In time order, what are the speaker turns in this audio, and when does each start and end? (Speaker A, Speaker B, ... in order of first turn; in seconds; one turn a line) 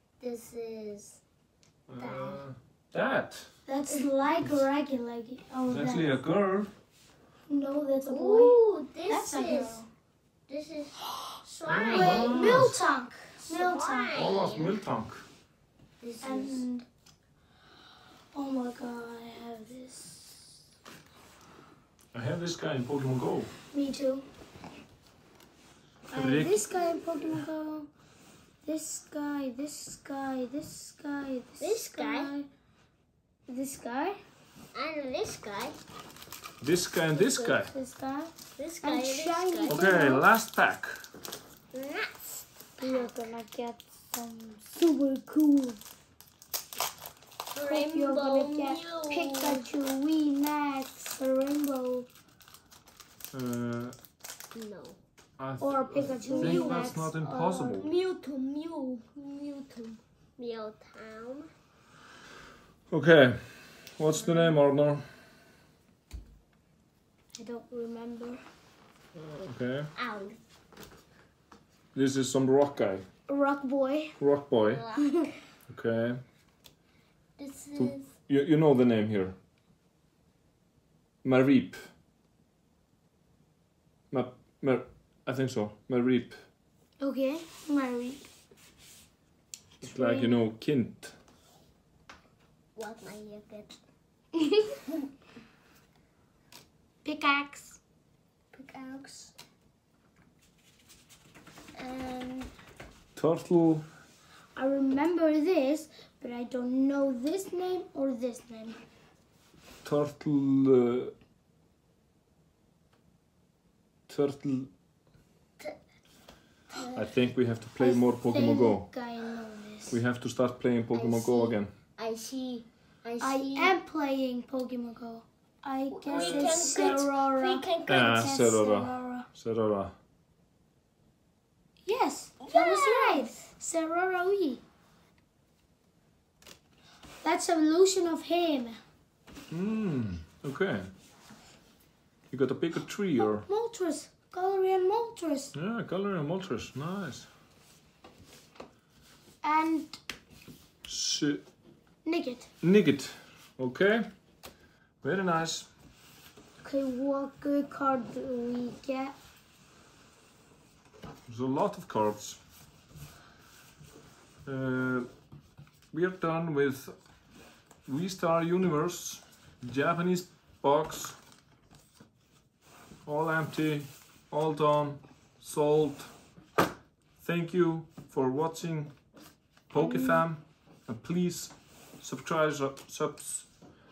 Speaker A: 0.2-1.2
Speaker B: 1.9-3.6
Speaker A: 2.0-2.4
Speaker C: 3.6-6.2
Speaker B: 5.7-6.7
Speaker C: 7.5-9.9
Speaker A: 8.1-9.8
Speaker A: 10.5-12.8
Speaker B: 11.7-12.8
Speaker C: 11.9-14.3
Speaker A: 13.4-14.8
Speaker B: 14.1-15.2
Speaker A: 16.0-16.6
Speaker C: 16.2-16.9
Speaker C: 18.3-20.6
Speaker B: 22.1-23.5
Speaker C: 23.7-24.2
Speaker C: 26.1-27.9
Speaker B: 26.1-26.8
Speaker C: 28.6-32.5
Speaker A: 31.6-32.3
Speaker C: 33.5-34.2
Speaker A: 34.7-35.8
Speaker B: 36.6-37.7
Speaker A: 37.1-37.7
Speaker C: 37.7-40.2
Speaker A: 38.6-39.8
Speaker B: 39.7-41.0
Speaker A: 41.7-43.1
Speaker C: 42.8-45.8
Speaker A: 47.5-49.7
Speaker C: 47.6-52.1
Speaker B: 53.3-54.0
Speaker A: 54.5-55.0
Speaker B: 55.4-57.9
Speaker C: 55.6-57.8
Speaker A: 56.2-57.1
Speaker A: 57.6-61.5
Speaker B: 62.9-65.1
Speaker A: 64.1-64.6
Speaker C: 67.3-68.4
Speaker B: 69.1-69.9
Speaker A: 69.9-70.4
Speaker B: 71.9-73.1
Speaker C: 73.3-74.2
Speaker B: 74.2-74.9
Speaker A: 74.7-75.3
Speaker B: 75.7-76.2
Speaker A: 77.4-78.1
Speaker B: 77.7-79.3
Speaker B: 81.2-81.8
Speaker B: 84.1-86.4
Speaker C: 87.0-88.3
Speaker B: 89.8-91.2
Speaker C: 89.8-90.4
Speaker A: 92.8-93.8
Speaker C: 97.0-97.8
Speaker A: 98.5-99.3
Speaker A: 101.8-102.5
Speaker B: 103.1-103.8
Speaker C: 104.5-108.8
Speaker B: 109.8-111.1
Speaker B: 114.1-114.7
Speaker A: 116.7-117.1
Speaker B: 116.9-118.9
Speaker C: 117.8-120.0
Speaker B: 119.9-121.7
Speaker A: 120.9-123.8
Speaker C: 123.2-129.3
Speaker A: 125.9-128.1
Speaker B: 127.8-129.9
Speaker C: 131.8-134.6
Speaker A: 132.4-133.5
Speaker C: 137.2-138.8
Speaker B: 139.5-140.9
Speaker B: 142.3-143.4
Speaker C: 143.2-145.5
Speaker B: 145.5-147.3
Speaker C: 149.4-150.0
Speaker B: 150.8-151.4
Speaker C: 152.0-152.5
Speaker B: 152.6-154.1
Speaker B: 155.0-155.7
Speaker C: 156.6-159.1
Speaker B: 161.3-162.4
Speaker B: 164.4-165.1
Speaker B: 165.9-167.0
Speaker B: 167.8-171.2
Speaker B: 173.0-176.1
Speaker B: 177.2-179.0
Speaker B: 179.7-183.6
Speaker C: 179.7-180.3